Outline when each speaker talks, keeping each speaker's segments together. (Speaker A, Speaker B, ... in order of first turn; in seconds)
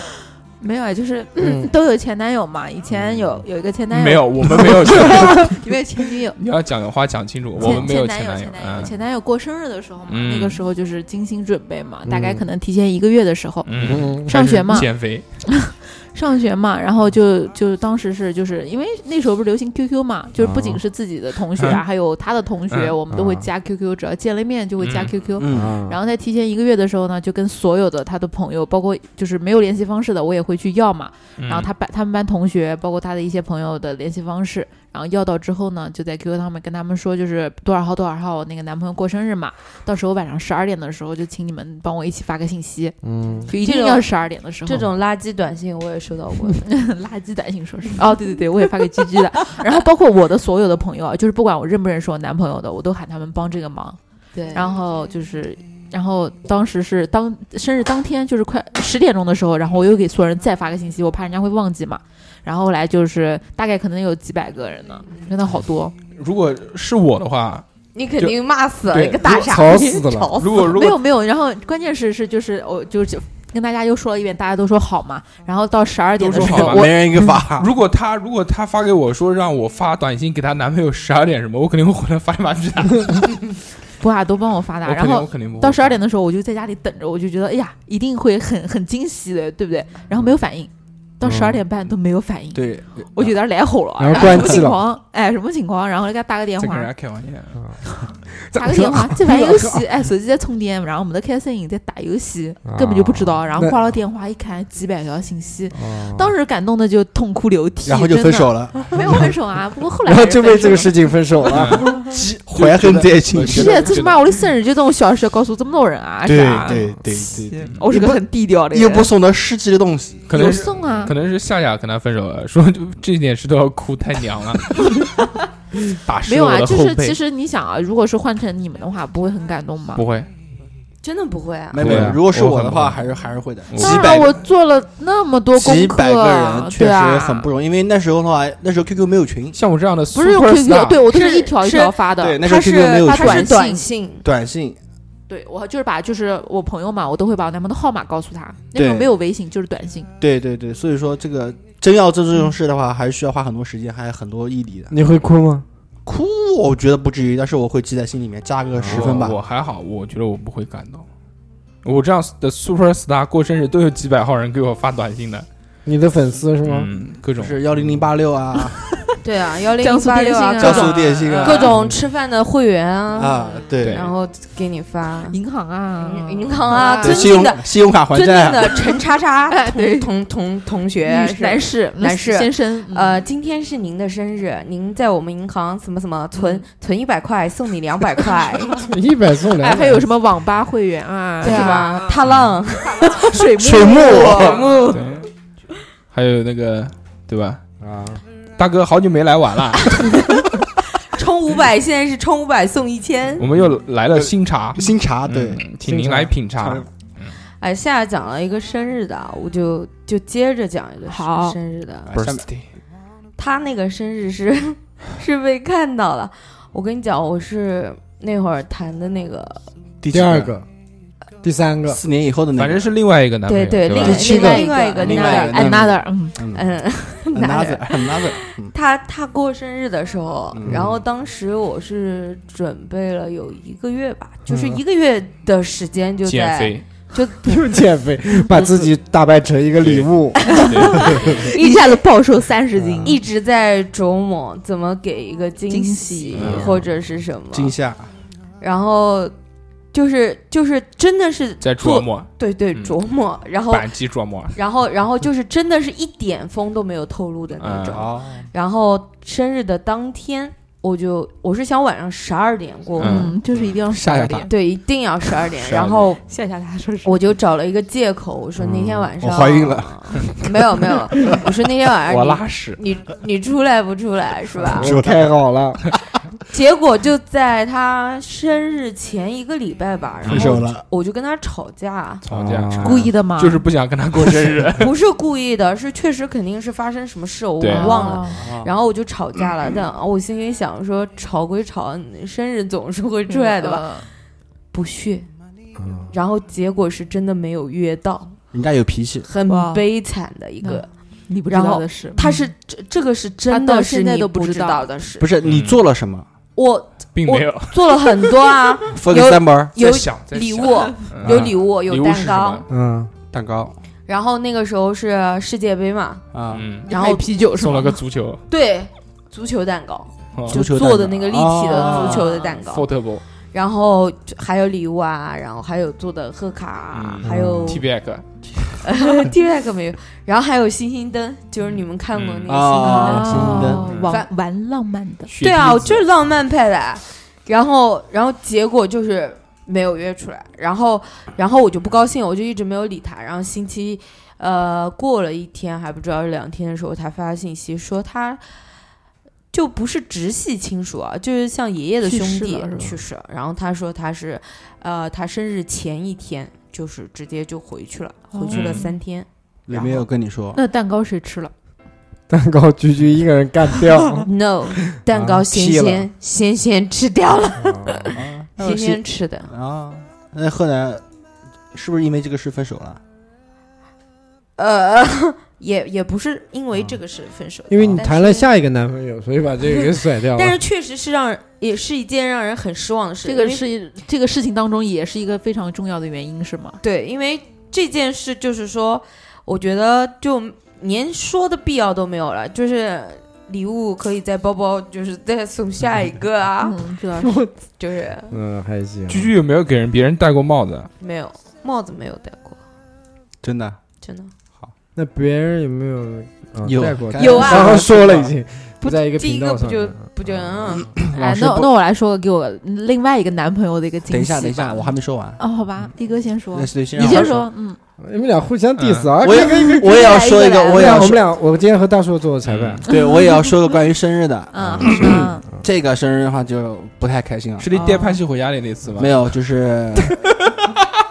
Speaker A: 0.6-6.4, 7.6-44.9, 46.7-54.0, 54.5-65.9, 70.7-76.9, 84.0-96.9, 98.6-111.0, 113.4-119.1, 120.3-121.1, 126.3-130.0, 133.8-137.5, 140.1-142.4, 143.1-143.9, 145.3-150.1, 169.8-171.7, 175.3-177.3, 179.5-180.1, 181.0-183.2, 186.3-186.6, 189.6-192.2, 192.8-195.0, 211.1-211.6, 224.0-226.4, 240.6-243.2, 245.7-246.6, 263.0-264.5, 266.3-267.2, 282.8-283.6, 287.7-288.4, 293.3-294.1, 299.5-299.9, 300.6-302.5, 303.5-305.0, 316.9-318.0, 321.7-322.6, 332.8-335.3, 352.0-352.9, 358.3-358.9, 360.5-361.5, 383.2-386.8, 396.6-397.4, 411.1-417.8, 419.3-421.0, 422.9-423.5, 424.5-425.4, 427.7-428.2
Speaker B: 1.4-1.7, 3.0-3.4, 12.1-12.5, 13.8-14.4, 20.4-20.8, 23.1-23.5, 25.5-26.0, 43.0-43.5, 69.2-70.4, 91.2-91.6, 94.0-94.8, 98.3-99.9, 102.7-103.9, 105.7-106.3, 110.0-111.9, 131.9-132.2, 154.9-155.7, 158.7-159.2, 165.8-166.9, 167.7-168.1, 188.8-190.1, 197.8-198.2, 205.8-206.9, 220.1-220.6, 221.4-222.0, 224.0-224.7, 230.7-230.9, 234.5-234.8, 237.4-241.2, 242.8-243.2, 268.6-269.1, 274.7-275.8, 282.3-283.1, 295.8-296.1, 312.7-313.1, 327.2-327.8, 362.3-364.3, 365.1-366.1, 367.6-368.1, 377.7-380.6, 397.2-397.5, 398.3-399.3, 404.9-410.4, 418.0-420.1, 420.7-422.8, 424.6-425.2
Speaker C: 3.9-5.6, 6.4-8.9, 10.1-10.6, 13.7-15.2, 24.8-25.1, 31.4-31.7, 66.2-67.6, 68.9-69.4, 70.4-71.0, 76.2-76.9, 77.5-83.5, 84.8-86.0, 96.6-97.6, 111.5-114.2, 120.3-124.9, 126.0-127.2, 130.0-130.3, 131.8-133.0, 133.7-134.2, 139.6-141.0, 158.9-161.1, 161.8-165.5, 166.6-167.6, 173.8-174.1, 194.8-195.3, 196.1-197.6, 198.6-200.3, 203.4-207.3, 212.1-212.7, 222.6-224.2, 236.2-236.8, 239.8-241.3, 246.3-246.7, 251.6-253.0, 253.7-254.6, 257.6-258.1, 263.0-263.4, 264.0-264.4, 265.6-266.1, 272.1-272.8, 280.3-280.5, 282.2-284.9, 287.6-288.0, 305.4-305.8, 307.1-308.1, 309.8-312.7, 316.5-316.9, 317.6-318.4, 320.3-320.6, 322.7-323.2, 326.9-328.7, 332.1-332.5, 333.9-334.1, 335.3-336.1, 358.5-358.9, 399.1-400.9, 418.8-419.1, 422.4-422.8, 427.6-429.2
Speaker D: 25.4-25.8, 76.2-77.7, 92.5-93.3, 107.8-109.0, 111.6-114.0, 116.2-120.6, 131.7-134.4, 135.6-139.6, 142.2-143.6, 144.2-144.8, 148.7-149.1, 150.2-154.9, 156.1-159.4, 167.4-168.8, 170.6-171.9, 173.1-174.1, 176.7-178.8, 193.6-194.6, 204.1-205.6, 212.1-212.4, 220.0-220.6, 221.9-222.9, 224.9-226.6, 227.3-228.7, 230.5-231.0, 247.5-248.1, 257.9-258.5, 268.7-270.5, 274.7-275.3, 280.3-280.9, 288.3-288.7, 298.5-299.3, 305.2-306.3, 308.9-309.8, 313.3-313.8, 316.3-316.7, 320.5-322.2, 332.5-333.9, 359.7-360.6, 368.1-371.0, 371.7-373.0, 403.4-403.8, 406.6-408.3, 411.0-411.7, 414.1-415.4, 416.5-417.4, 419.2-421.2, 422.9-427.7, 429.0-430.2
Speaker E: 43.5-44.1, 44.6-46.7, 54.3-54.7, 67.9-70.7, 131.0-131.9, 141.1-144.3, 169.2-175.4, 176.0-188.8, 191.4-194.9, 201.1-203.5, 207.6-212.1, 213.4-219.7, 223.5-225.9, 226.5-237.6, 241.2-241.9, 243.0-247.8, 248.6-249.3, 249.9-253.9, 254.5-263.4, 264.5-266.2, 267.0-274.9, 276.5-282.2, 284.8-294.1, 294.7-295.3, 296.1-298.4, 299.2-300.9, 301.5-305.3, 306.6-312.6, 314.1-316.3, 316.9-317.3, 318.5-322.9, 323.5-327.9, 328.8-334.3, 335.4-348.4, 349.5-360.0, 364.2-369.5, 374.6-378.5, 379.7-383.6, 386.8-396.8, 397.8-398.4, 401.0-402.6, 404.0-404.3, 407.2-407.9, 408.8-410.9, 420.1-420.6